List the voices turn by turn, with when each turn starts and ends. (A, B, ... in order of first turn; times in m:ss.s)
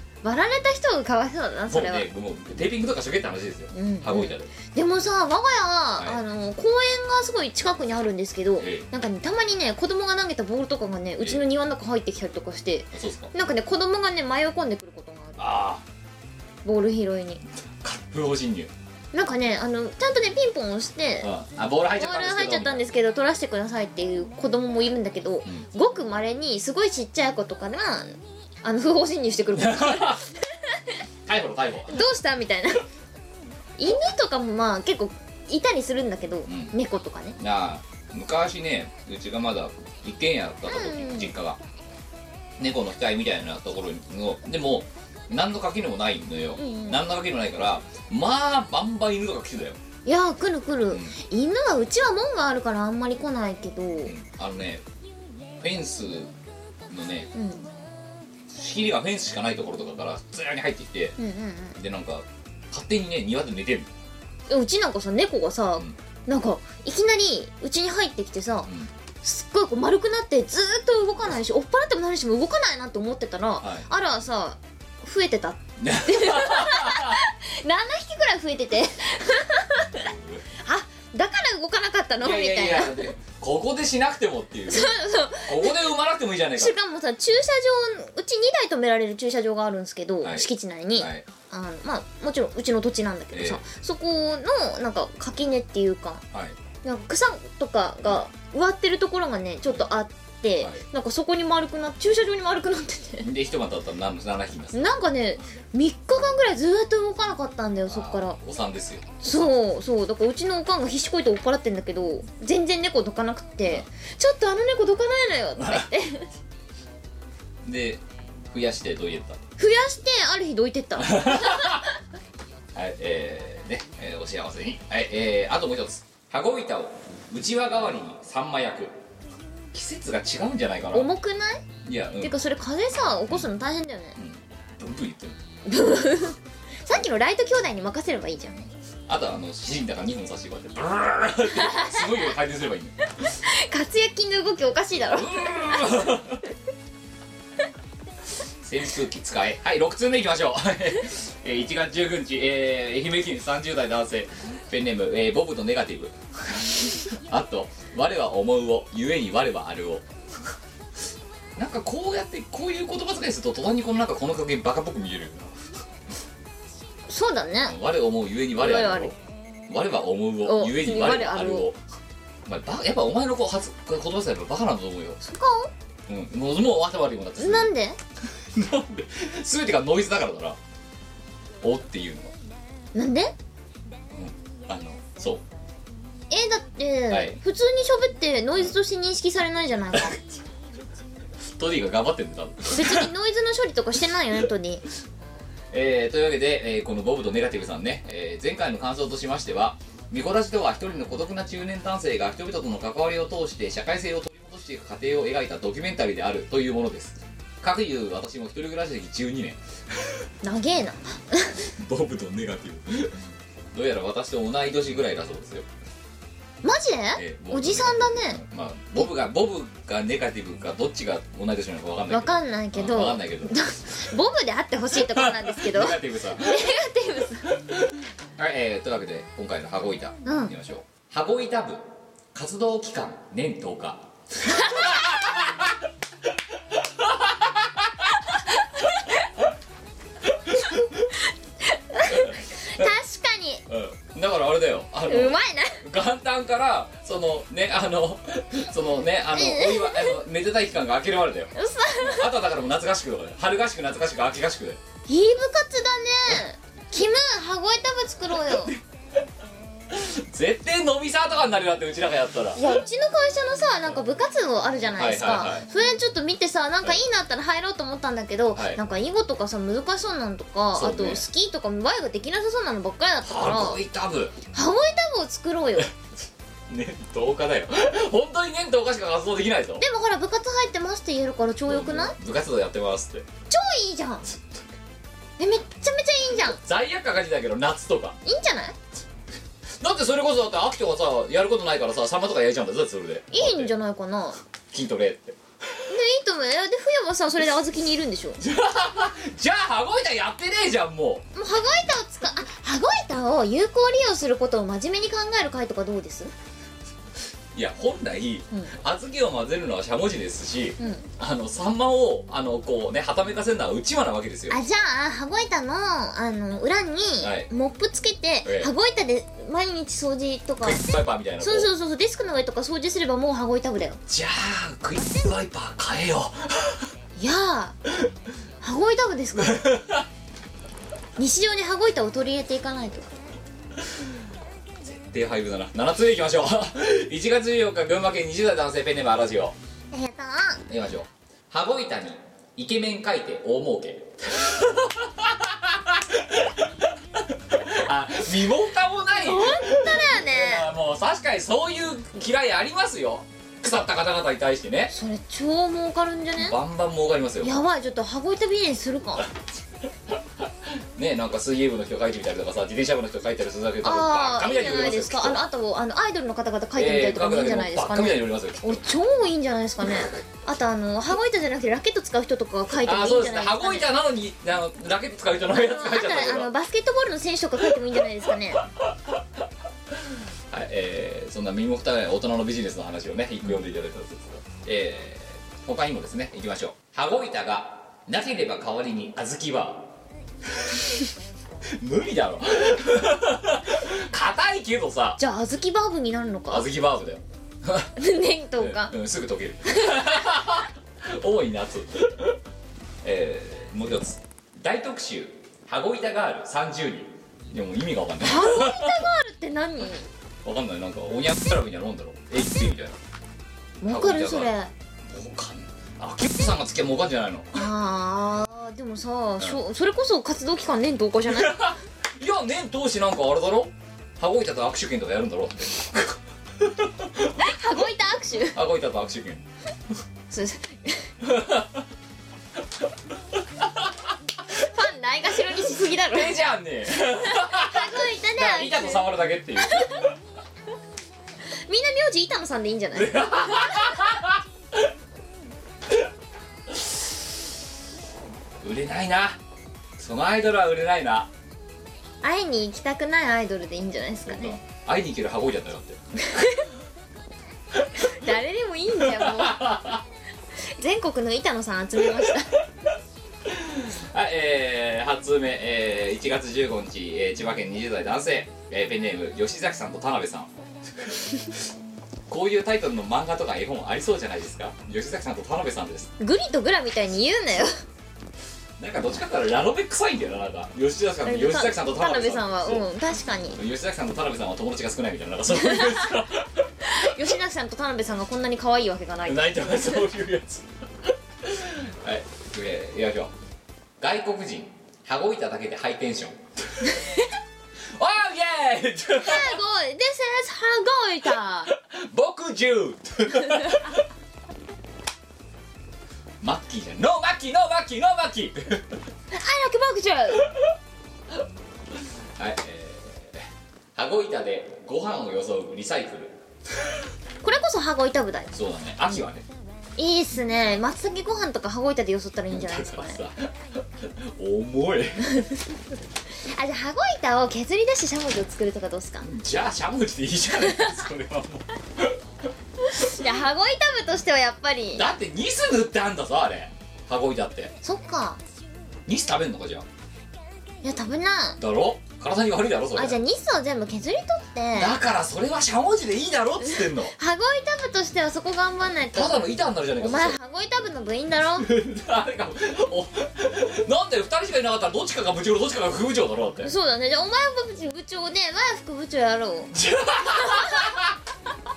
0:00.2-0:02.0 A
0:01.7-0:04.5 B
0:03.7-0:15.4 A
0:08.6-0:08.8 B
0:12.9-0:13.3 B
0:15.4-0:15.8 B
0:16.6-0:17.4 A
0:17.8-0:18.7 B
0:19.1-0:21.3 A
0:21.2-0:22.9 B
0:21.9-0:30.7 A
0:29.5-0:30.2 B
0:31.2-0:32.0 B
0:31.9-0:32.8 A
0:33.8-0:37.4 A
0:36.4-0:36.7 B
0:37.4-0:41.6 B
0:40.6-0:41.3 A
0:42.6-0:49.8 B
0:46.6-0:47.0 A
0:50.0-0:54.1 A
0:50.9-0:51.2 B
0:54.0-0:54.8 B
0:55.6-0:56.3 B
0:56.9-0:57.3 B
0:57.3-0:57.7 A
0:58.5-1:01.2 B
1:01.2-1:01.8 A
1:01.7-1:03.9 B
1:04.5-1:08.7 A
1:08.6-1:08.9 B
1:09.2-1:20.0 A
1:13.6-1:13.9 B
1:15.8-1:17.2 B
1:20.0-1:20.4 B
1:20.6-1:23.1 A
1:22.2-1:26.8 B
1:24.7-1:25.9 A
1:26.6-1:36.2 A
1:30.2-1:31.2 B
1:33.3-1:33.6 B
1:36.3-1:36.6 B
1:36.8-1:43.3 A
1:43.2-1:45.0 B
1:44.7-1:48.4 A
1:47.9-1:49.5 B
1:49.2-1:56.3 A
1:55.6-1:55.9 B
1:57.6-1:59.4 B
1:59.6-2:01.9 A
2:01.0-2:01.8 B
2:02.7-2:08.9 B
2:09.7-2:11.1 B
2:10.9-2:11.6 A
2:11.8-2:12.3 B
2:12.2-2:14.2 A
2:14.2-2:15.4 B
2:15.6-2:18.7 A
2:19.1-2:22.9 B
2:21.5-2:22.3 A
2:23.4-2:26.1 A
2:25.0-2:26.4 B
2:28.6-2:40.5 B
2:41.6-2:45.7 B
2:47.1-2:47.7 A
2:47.6-2:49.2 B
2:48.6-2:49.1 A
2:49.7-2:51.8 B
2:50.4-2:51.7 A
2:52.4-2:55.2 B
2:55.2-2:55.7 A
2:56.1-2:57.7 B
2:57.4-2:58.0 A
2:58.5-3:00.6 B
3:01.6-3:02.3 B
3:02.9-3:03.3 A
3:04.1-3:05.4 B
3:06.3-3:10.2 A
3:07.1-3:07.4 B
3:09.9-3:10.2 B
3:11.6-3:13.1 B
3:12.7-3:14.8 A
3:15.7-3:30.2 B
3:30.4-3:31.6 A
3:31.7-3:33.2 B
3:33.7-3:35.7 B
3:36.6-3:38.4 A
3:37.1-3:43.6 B
3:42.1-3:47.5 A
3:44.9-3:46.7 B
3:48.4-3:55.8 B
3:50.2-3:50.5 A
3:54.5-3:55.2 A
3:56.5-3:58.1 B
4:00.2-4:01.1 B
4:01.6-4:03.6 A
4:02.0-4:02.9 B
4:03.7-4:14.8 B
4:05.1-4:05.8 A
4:09.3-4:10.2 A
4:11.5-4:12.3 A
4:15.1-4:18.7 A
4:18.4-4:18.8 B
4:19.9-4:22.8 B
4:22.6-4:33.8 A
4:24.9-4:25.7 B
4:28.5-4:28.8 B
4:30.7-4:31.2 B
4:33.2-4:34.3 B
4:34.5-4:35.9 A
4:36.7-4:39.8 B
4:39.8-4:42.1 A
4:41.6-4:43.3 B
4:43.5-4:44.2 A
4:44.3-4:44.6 B
4:45.4-4:46.6 A
4:46.4-4:48.2 B
4:48.2-4:48.7 A
4:49.8-4:53.7 B
4:53.3-4:54.4 A
4:54.7-4:55.4 B
4:55.9-4:58.4 A
4:58.4-5:01.2 B
5:01.3-5:06.3 A
5:07.5-5:14.6 B
5:10.8-5:11.0 A
5:14.5-5:24.0 A
5:17.2-5:17.5 B
5:18.4-5:18.7 B
5:20.6-5:21.7 B
5:24.1-5:26.9 B
5:27.2-5:27.8 A
5:28.6-5:29.6 A
5:29.4-5:30.1 B
5:31.2-5:33.2 A
5:34.8-5:39.5 B
5:39.9-5:40.6 A
5:40.7-5:54.9 B
5:49.2-5:50.7 A
5:54.9-5:56.6 A
5:56.4-5:57.6 B
5:57.4-5:59.3 A
6:00.1-6:05.4 B
6:03.8-6:13.9 A
6:06.7-6:08.8 B
6:12.7-6:16.5 B
6:15.5-6:18.6 A
6:20.5-6:29.9 B
6:30.4-6:31.0 B
6:31.8-6:35.2 B
6:35.2-6:36.6 A
6:36.5-6:37.9 B
6:38.0-6:38.9 A
6:38.6-6:42.4 B
6:43.0-6:49.0 B
6:48.2-6:50.0 A
6:50.4-6:53.0 B
6:53.8-6:54.7 A
6:53.8-6:57.7 B
6:57.5-7:01.7 A
7:01.3-7:07.3 B
7:07.4-7:08.6 A
7:08.5-7:09.4 B
7:10.3-7:11.1 A
7:11.2-7:11.8 B
7:13.6-7:13.9 B
7:14.5-7:16.3 A
7:16.1-7:20.1 B
7:17.3-7:20.0 A
7:21.7-7:24.1 A
7:22.9-7:24.9 B
7:28.6-7:29.4 B
7:30.0-7:31.3 B
7:32.2-7:34.6 A
7:34.2-7:36.0 B
7:36.3-7:36.6 A
7:38.0-7:39.8 A
7:39.0-7:40.0 B
7:40.7-7:42.6 A
7:43.4-7:51.6 B
7:52.3-7:56.1 B
7:56.2-7:57.7 A
7:58.8-8:02.9 B
8:01.2-8:03.6 A
8:03.5-8:07.1 B
8:05.5-8:06.1 A
8:06.8-8:10.0 A
8:09.2-8:13.3 B
8:14.0-8:16.9 B
8:18.0-8:19.6 B
8:19.2-8:21.7 A
8:21.7-8:24.0 B
8:26.4-8:29.0 B
8:29.3-8:30.4 A
8:32.4-8:36.4 B
8:37.4-8:38.5 A
8:38.5-8:39.5 B
8:40.0-8:43.2 A
8:42.5-8:45.4 B
8:46.5-8:49.3 A
8:49.2-8:52.2 B
8:50.5-8:51.0 A
8:52.8-8:55.1 A
8:54.9-8:57.7 B
8:57.8-8:58.4 A
8:59.1-8:59.8 B
9:00.8-9:01.6 A
9:01.6-9:03.2 B
9:03.0-9:05.0 A
9:04.7-9:07.1 B
9:07.1-9:11.7 A
9:09.1-9:10.4 B
9:11.6-9:16.7 B
9:16.6-9:19.7 A
9:19.7-9:21.2 B
9:20.4-9:20.8 A